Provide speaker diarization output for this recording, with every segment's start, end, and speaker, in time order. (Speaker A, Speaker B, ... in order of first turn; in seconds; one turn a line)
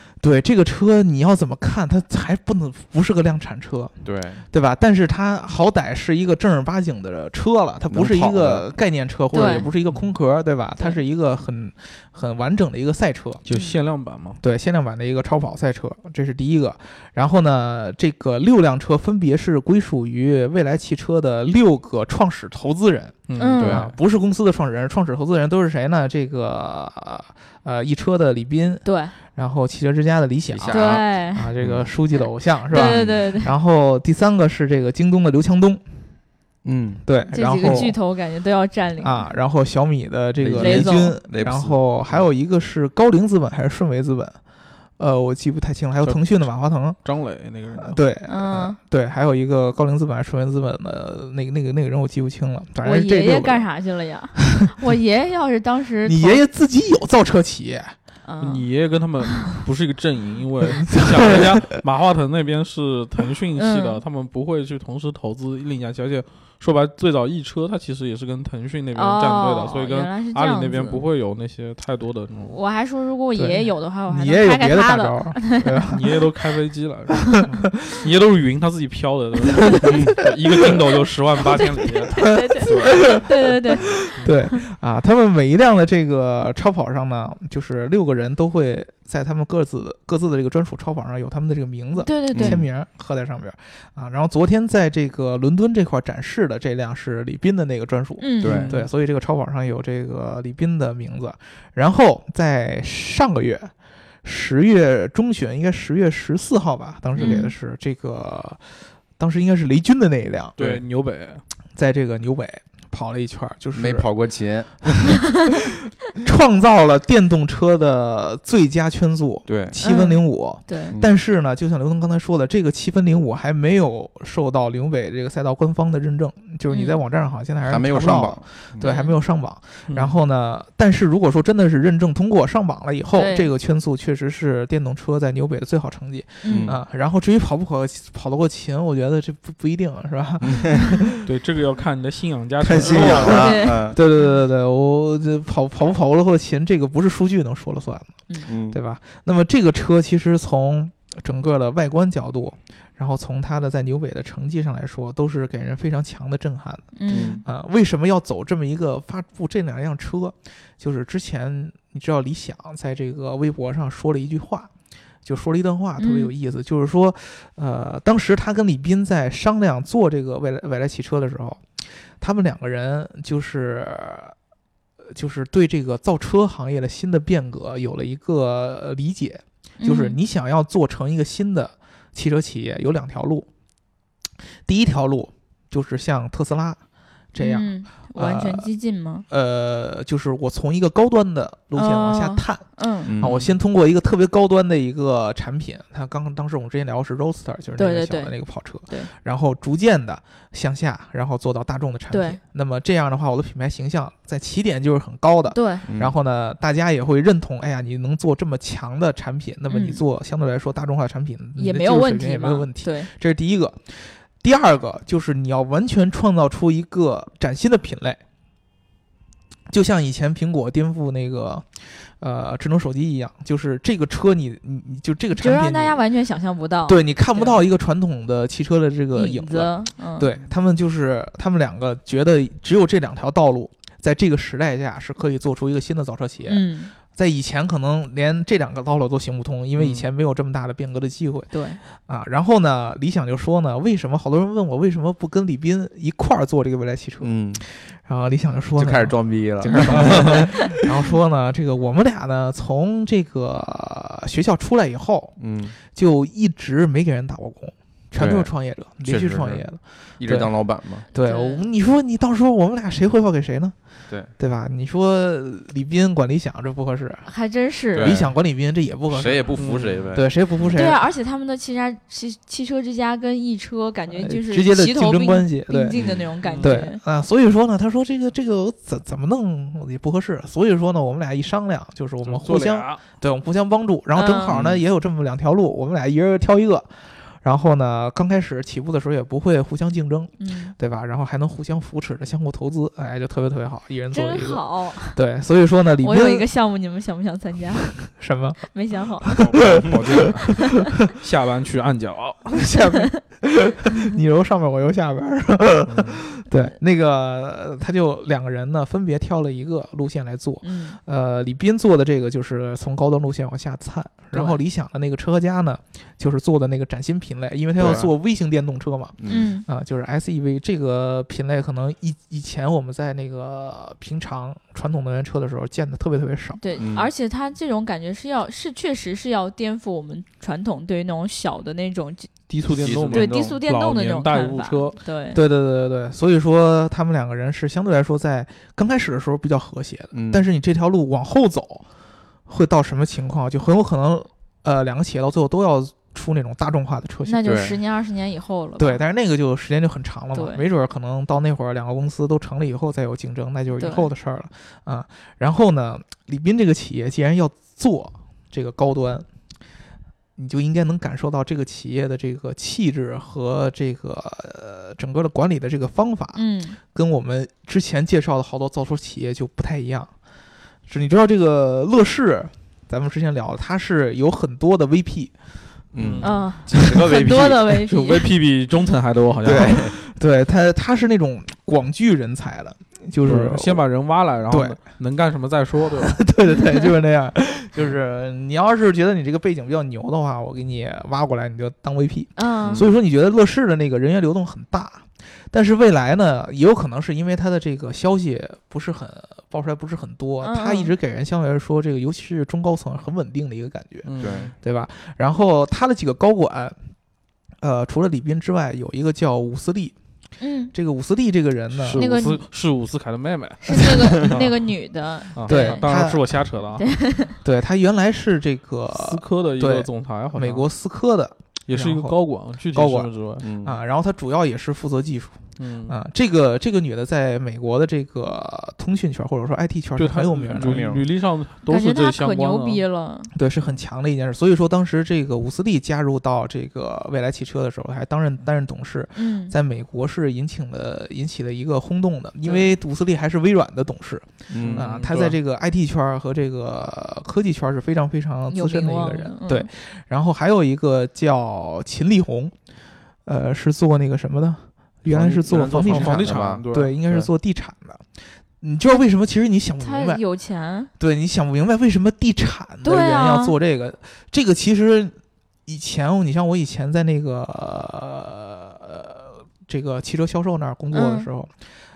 Speaker A: 0.2-4.0
Speaker B: 4.0-4.5
Speaker A: 4.5-13.4
Speaker B: 7.9-8.7
Speaker C: 9.3-9.7
Speaker D: 13.4-14.4
Speaker C: 13.5-13.8
Speaker A: 14.4-35.8
Speaker D: 23.3-23.7
Speaker C: 23.4-23.8
Speaker B: 23.6-23.9
Speaker C: 28.9-29.1
Speaker B: 30.5-31.0
Speaker C: 30.7-31.5
Speaker B: 31.6-31.9
Speaker C: 32.7-33.5
Speaker B: 32.7-33.3
Speaker B: 36.6-37.0
Speaker A: 37.0-38.0
Speaker C: 37.3-39.3
Speaker B: 37.6-37.9
Speaker A: 39.0-44.4
Speaker B: 40.4-42.2
Speaker C: 40.6-41.2
Speaker A: 45.0-47.0
Speaker D: 46.0-48.0
Speaker A: 47.8-53.7
Speaker C: 48.3-48.8
Speaker C: 52.8-56.4
Speaker A: 56.0-58.0
Speaker C: 58.2-58.7
Speaker D: 58.4-72.6
Speaker A: 60.9-61.7
Speaker C: 63.6-64.0
Speaker C: 68.9-71.0
Speaker C: 72.4-75.8
Speaker A: 73.4-76.2
Speaker D: 75.9-83.1
Speaker A: 77.5-78.0
Speaker B: 79.8-80.1
Speaker A: 80.3-80.8
Speaker C: 81.5-84.0
Speaker A: 82.5-103.7
Speaker D: 84.1-84.3
Speaker C: 92.0-92.6
Speaker B: 92.3-92.6
Speaker C: 98.2-98.7
Speaker B: 98.4-98.7
Speaker D: 98.4-98.9
Speaker A: 104.2-108.6
Speaker C: 107.2-107.5
Speaker A: 109.2-110.8
Speaker D: 110.6-111.4
Speaker A: 111.8-114.1
Speaker B: 113.8-115.3
Speaker A: 116.2-141.2
Speaker B: 119.5-119.8
Speaker C: 119.8-121.0
Speaker C: 126.7-127.0
Speaker B: 127.7-128.9
Speaker C: 128.8-129.2
Speaker D: 129.9-130.1
Speaker C: 133.1-133.5
Speaker C: 136.4-136.7
Speaker B: 136.5-136.8
Speaker B: 140.4-140.9
Speaker D: 141.2-143.5
Speaker B: 142.7-144.0
Speaker A: 142.7-164.7
Speaker C: 143.2-143.9
Speaker B: 148.5-148.8
Speaker C: 156.9-157.4
Speaker B: 157.1-157.4
Speaker A: 165.2-174.3
Speaker C: 166.0-166.3
Speaker A: 175.1-183.5
Speaker C: 179.8-180.2
Speaker A: 184.7-186.8
Speaker A: 187.3-188.7
Speaker C: 187.4-189.2
Speaker A: 189.3-218.2
Speaker C: 191.8-193.2
Speaker B: 193.1-193.5
Speaker C: 197.8-198.3
Speaker C: 202.1-202.4
Speaker C: 205.5-205.9
Speaker B: 205.9-206.1
Speaker C: 209.7-210.0
Speaker C: 211.6-213.1
Speaker A: 219.7-226.0
Speaker C: 225.4-227.6
Speaker A: 226.9-263.8
Speaker C: 229.1-230.3
Speaker C: 236.5-236.9
Speaker D: 239.8-240.1
Speaker C: 241.5-241.8
Speaker B: 247.2-247.6
Speaker B: 248.8-250.5
Speaker B: 255.4-255.8
Speaker B: 258.2-258.5
Speaker B: 259.0-259.6
Speaker B: 260.2-261.1
Speaker C: 261.1-261.7
Speaker A: 264.4-267.3
Speaker C: 267.3-268.2
Speaker B: 267.9-268.3
Speaker A: 267.9-269.6
Speaker B: 269.1-270.3
Speaker D: 269.5-270.1
Speaker A: 270.1-271.0
Speaker C: 270.7-277.0
Speaker A: 274.1-276.0
Speaker B: 275.9-276.3
Speaker D: 276.4-276.7
Speaker A: 276.6-286.9
Speaker D: 282.2-283.0
Speaker C: 284.1-284.5
Speaker B: 284.5-284.8
Speaker A: 287.4-296.5
Speaker C: 290.4-290.8
Speaker C: 294.1-295.2
Speaker C: 296.0-298.0
Speaker A: 298.0-298.6
Speaker C: 298.7-299.4
Speaker A: 299.3-300.3
Speaker B: 299.4-300.3
Speaker D: 299.6-300.5
Speaker D: 301.1-302.5
Speaker A: 302.5-326.6
Speaker D: 305.9-306.2
Speaker C: 310.6-311.0
Speaker C: 314.3-314.6
Speaker B: 317.8-318.1
Speaker B: 319.2-319.5
Speaker C: 319.3-319.7
Speaker C: 326.6-332.3
Speaker B: 326.8-327.1
Speaker D: 332.5-335.0
Speaker B: 332.8-333.3
Speaker C: 333.1-335.4
Speaker A: 335.3-341.9
Speaker B: 340.1-340.4
Speaker A: 342.5-347.6
Speaker C: 347.2-349.0
Speaker B: 347.4-347.8
Speaker A: 348.8-359.3
Speaker C: 350.3-350.6
Speaker C: 353.7-354.1
Speaker A: 360.4-370.1
Speaker C: 366.4-366.8
Speaker A: 370.9-375.3
Speaker B: 375.9-377.6
Speaker D: 376.0-376.5
Speaker C: 376.2-378.3
Speaker D: 377.7-379.9
Speaker A: 379.4-383.8
Speaker B: 379.5-379.9
Speaker D: 383.2-386.2
Speaker A: 384.5-384.8
Speaker A: 386.0-406.8
Speaker C: 392.4-392.8
Speaker B: 392.6-392.9
Speaker C: 400.4-400.9
Speaker D: 404.1-404.5
Speaker B: 404.2-404.5
Speaker A: 407.6-409.9
Speaker C: 410.4-410.7
Speaker A: 410.7-412.0
Speaker D: 411.7-414.6
Speaker C: 411.9-412.4
Speaker C: 413.7-415.8
Speaker D: 415.4-416.9
Speaker A: 415.5-416.5
Speaker C: 416.8-417.4
Speaker A: 417.4-422.2
Speaker D: 418.9-420.7
Speaker D: 421.7-423.5
Speaker A: 422.7-430.9
Speaker B: 423.4-423.8
Speaker D: 425.6-426.0
Speaker D: 430.0-432.8
Speaker B: 430.6-431.0
Speaker C: 431.7-433.3
Speaker A: 433.3-452.5
Speaker C: 439.1-439.5
Speaker B: 444.5-444.9
Speaker D: 444.5-445.4
Speaker C: 448.5-449.7
Speaker A: 453.3-458.0
Speaker B: 455.1-456.6
Speaker D: 455.2-457.3
Speaker A: 458.6-460.2
Speaker C: 459.8-460.9
Speaker A: 461.0-471.5
Speaker C: 462.8-463.6
Speaker C: 470.9-471.3